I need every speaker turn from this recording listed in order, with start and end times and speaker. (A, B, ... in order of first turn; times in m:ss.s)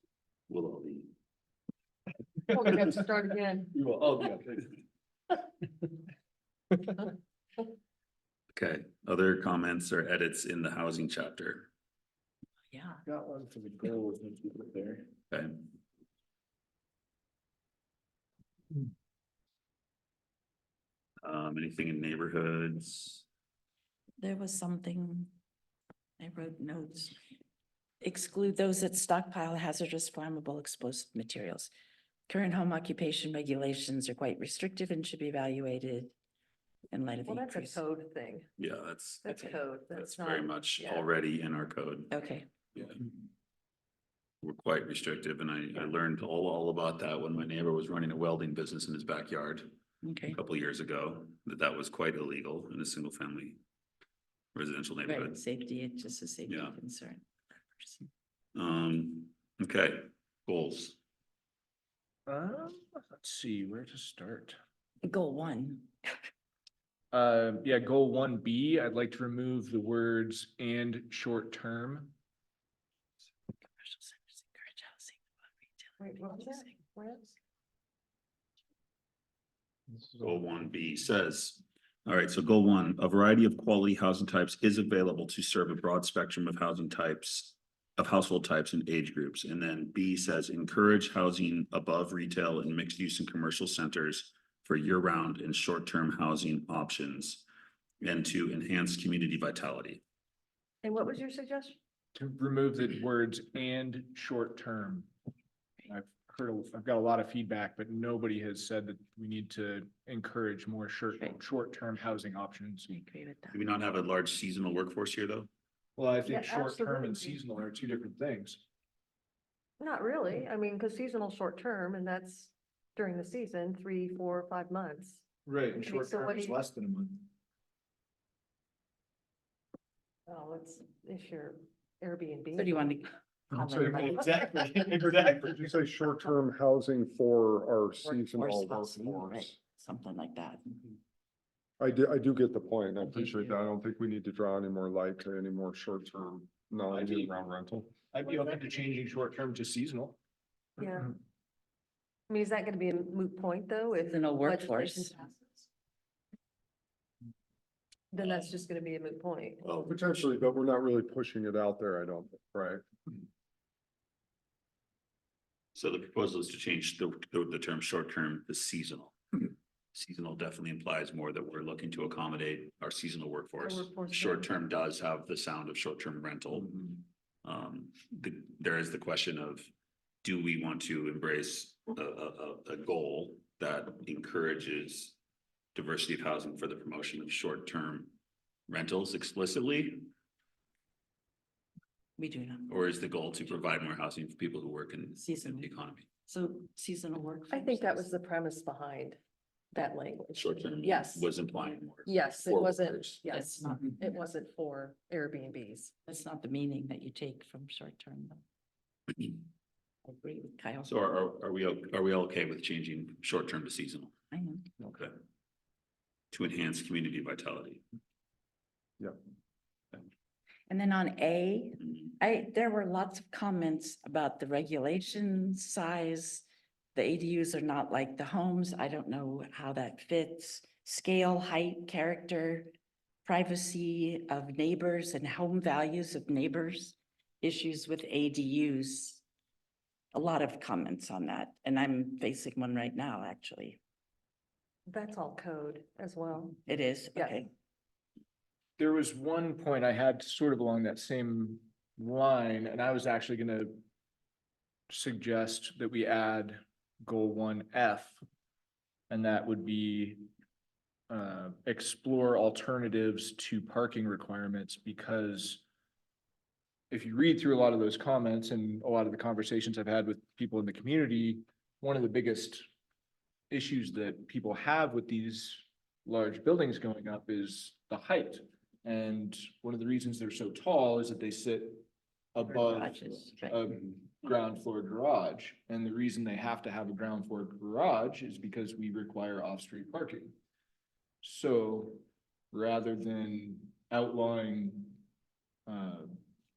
0:00.5-0:01.1 A
0:02.5-0:04.4 B
0:03.7-0:04.7 C
0:08.5-0:11.7 A
0:12.7-0:13.0 D
0:13.0-0:15.1 C
0:15.3-0:15.7 A
0:21.2-0:23.3 A
0:24.2-0:25.4 D
0:26.2-0:27.2 D
0:28.0-0:31.7 D
0:32.3-0:36.1 D
0:36.9-0:37.8 D
0:37.3-0:38.5 B
0:38.6-0:42.1 A
0:39.2-0:41.1 B
0:42.1-0:42.5 D
0:42.7-0:43.0 A
0:44.4-0:49.7 A
0:50.0-0:50.4 D
0:50.3-0:53.6 A
0:54.6-0:55.4 A
0:55.0-0:58.1 D
0:56.5-0:56.8 A
0:58.6-1:01.0 A
1:02.3-1:04.6 C
1:05.0-1:06.2 D
1:07.1-1:12.2 C
1:13.7-1:15.2 D
1:15.8-1:16.7 D
1:16.0-1:17.4 B
1:20.2-1:37.4 A
1:38.0-1:40.0 A
1:40.8-1:41.8 B
1:42.2-1:45.1 C
1:45.9-1:52.9 C
1:52.9-1:53.6 D
1:53.5-1:55.5 A
1:56.0-1:58.6 C
1:56.3-1:57.4 B
1:59.8-2:05.2 B
2:05.5-2:07.3 C
2:05.8-2:06.6 B
2:10.3-2:12.9 B
2:12.6-2:14.3 D
2:13.6-2:15.7 C
2:15.3-2:19.6 E
2:18.0-2:20.6 D
2:21.8-2:27.8 E
2:23.0-2:23.6 D
2:26.9-2:30.2 C
2:30.8-2:31.1 B
2:32.3-2:35.7 B
2:34.1-2:35.2 D
2:38.1-2:39.6 B
2:38.2-2:38.5 A
2:39.6-2:39.9 A
2:39.8-2:42.8 E
2:45.8-2:59.7 A
2:53.6-2:54.5 B
3:00.2-3:05.2 A
3:05.8-3:08.1 A
3:08.7-3:10.1 A
3:12.2-3:12.8 D
3:12.7-3:16.1 A
3:15.2-3:15.7 D
3:16.3-3:18.1 D
3:17.5-3:19.2 B
3:19.7-3:21.3 B
3:20.3-3:23.2 A
3:22.1-3:25.9 B
3:23.3-3:24.0 D
3:26.1-3:28.4 D
3:30.1-3:30.9 D
3:30.9-3:34.1 A
3:34.3-3:34.7 D
3:34.8-3:35.1 A
3:36.3-3:37.8 A
3:40.7-3:52.7 D
3:53.2-3:59.2 D
4:00.1-4:03.8 D
4:04.9-4:06.6 B
4:06.7-4:07.5 D
4:07.1-4:07.4 B
4:08.8-4:13.8 C
4:14.9-4:18.2 C
4:19.1-4:20.3 C
4:21.1-4:25.6 C
4:26.9-4:32.7 C
4:33.5-4:50.3 C
4:42.5-4:43.7 D
4:51.2-4:55.0 C
4:55.7-4:56.2 C